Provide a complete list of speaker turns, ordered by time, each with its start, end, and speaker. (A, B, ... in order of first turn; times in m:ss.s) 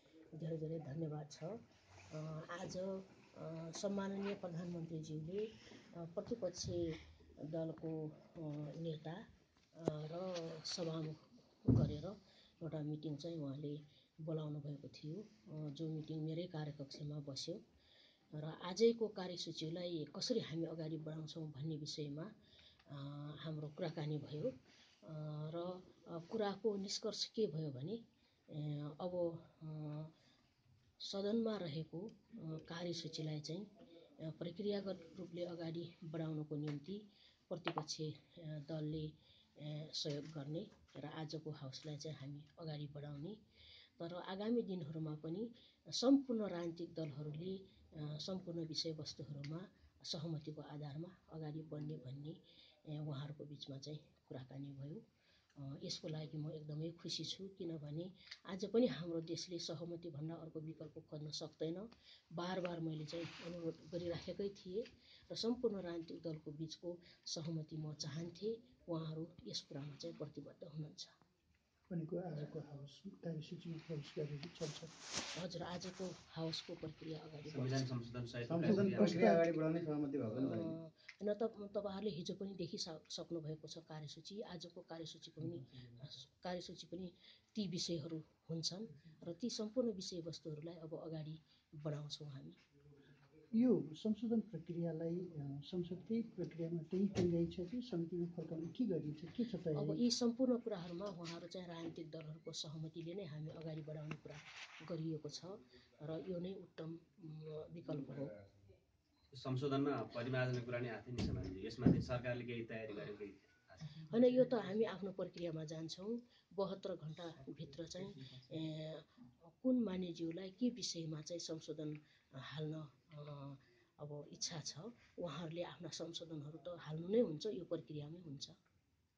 0:00.4-0:01.6 A
0:02.1-0:05.5 A
0:06.0-0:07.0 A
0:07.5-0:09.2 A
0:09.8-0:17.6 A
0:18.3-0:22.3 A
0:22.9-0:28.0 A
0:28.5-0:30.1 A
0:31.0-0:33.7 A
0:34.2-0:43.4 A
0:44.0-0:55.0 A
0:55.6-1:11.2 A
1:11.9-1:15.0 B
1:15.4-1:17.8 A
1:17.5-1:19.3 C
1:18.5-1:20.7 D
1:18.6-1:19.5 B
1:20.4-1:32.6 A
1:33.6-1:40.0 B
1:39.7-1:48.4 A
1:49.3-1:54.0 C
1:53.9-2:08.6 A